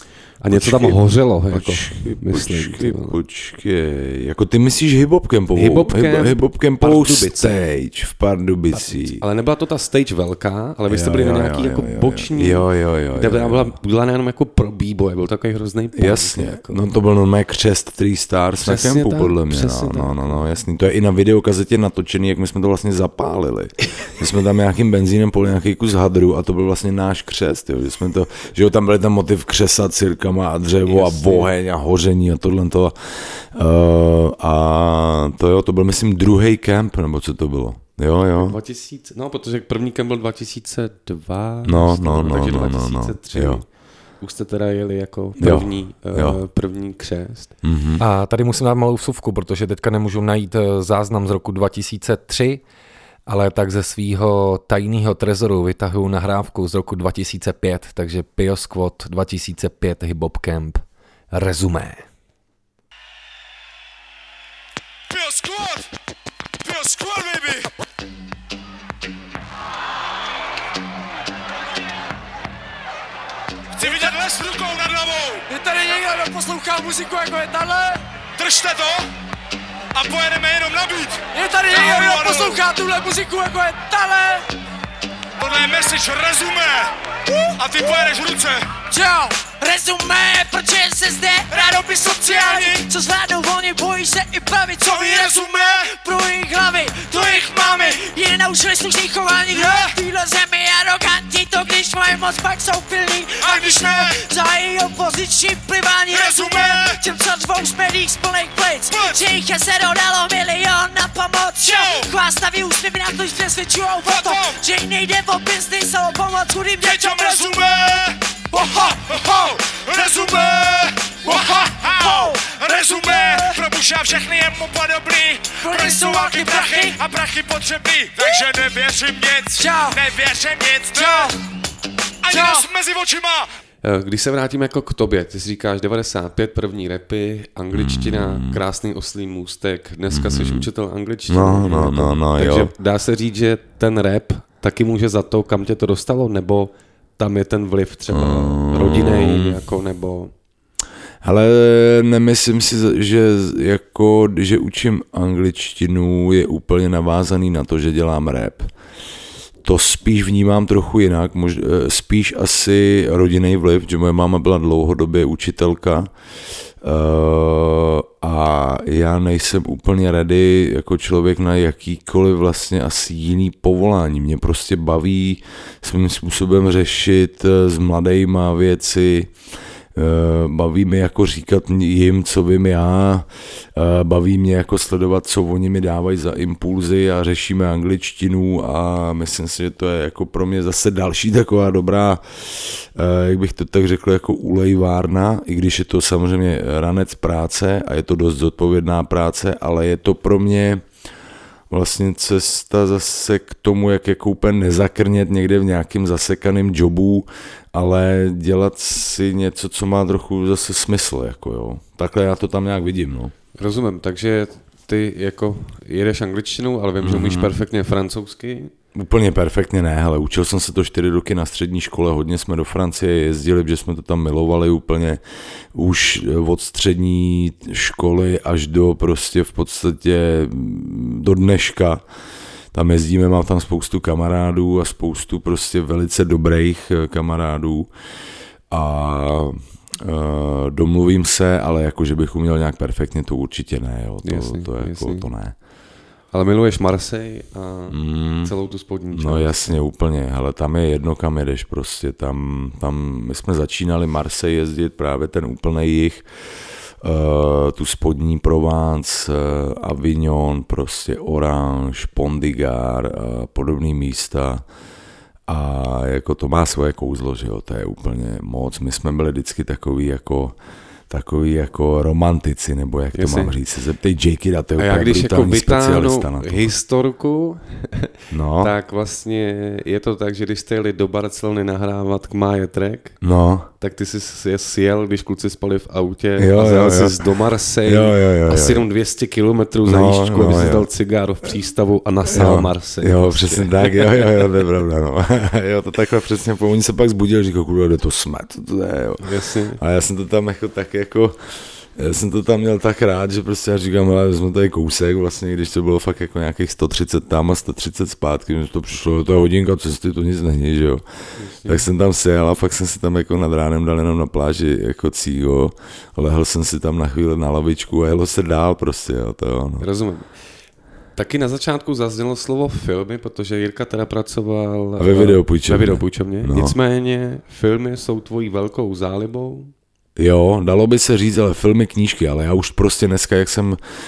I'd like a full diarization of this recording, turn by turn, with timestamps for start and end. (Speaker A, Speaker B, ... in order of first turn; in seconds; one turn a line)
Speaker A: 0.4-3.2
Speaker B: 0.5-9.2
Speaker A: 5.5-7.6
Speaker A: 8.7-16.8
Speaker B: 10.9-13.8
Speaker B: 16.0-38.6
Speaker A: 18.6-20.4
Speaker A: 30.9-31.5
Speaker A: 38.4-43.7
Speaker B: 41.6-43.6
Speaker A: 44.2-47.5
Speaker B: 45.4-46.4
Speaker B: 47.6-48.0
Speaker C: 48.0-52.6
Speaker C: 53.3-62.1
Speaker D: 65.1-65.9
Speaker D: 66.6-67.7
Speaker D: 73.8-75.5
Speaker E: 73.8-74.2
Speaker E: 75.5-78.0
Speaker D: 78.3-79.1
Speaker D: 79.9-82.7
Speaker E: 81.3-84.5
Speaker D: 85.4-86.9
Speaker D: 87.5-88.7
Speaker E: 88.9-117.6
Speaker D: 91.5-92.9
Speaker D: 94.8-96.0
Speaker D: 99.5-100.0
Speaker D: 103.4-104.3
Speaker D: 106.1-107.0
Speaker D: 108.9-109.3
Speaker D: 111.6-112.1
Speaker D: 114.0-114.6
Speaker D: 116.8-131.4
Speaker E: 118.5-120.2
Speaker E: 121.2-123.6
Speaker E: 125.6-127.0
Speaker E: 129.6-130.0
Speaker E: 130.9-131.3
Speaker D: 132.2-133.5
Speaker E: 132.3-132.7
Speaker A: 133.8-150.3
Speaker B: 137.7-138.6
Speaker B: 140.1-140.7
Speaker B: 141.3-142.7
Speaker B: 148.1-149.6
Speaker B: 151.2-158.7
Speaker B: 159.6-166.1
Speaker B: 166.8-179.3
Speaker B: 179.9-200.9
Speaker B: 201.7-213.3
Speaker A: 213.6-218.7
Speaker B: 217.0-217.5
Speaker B: 218.9-225.2
Speaker B: 225.7-232.0
Speaker B: 232.7-237.9
Speaker B: 238.7-245.6
Speaker A: 244.2-245.3
Speaker A: 246.3-249.8
Speaker B: 247.9-248.5
Speaker B: 249.1-264.6
Speaker B: 265.5-270.6
Speaker B: 271.1-276.7
Speaker A: 273.1-273.5
Speaker A: 274.8-283.2
Speaker B: 278.3-278.7
Speaker B: 283.2-283.7
Speaker A: 283.8-294.3
Speaker B: 286.4-288.9
Speaker B: 289.9-290.9
Speaker B: 292.3-311.0
Speaker A: 299.2-299.8
Speaker A: 311.4-311.9
Speaker B: 311.6-319.9
Speaker A: 319.8-320.3
Speaker A: 321.2-329.7
Speaker B: 325.0-326.8
Speaker B: 330.2-333.8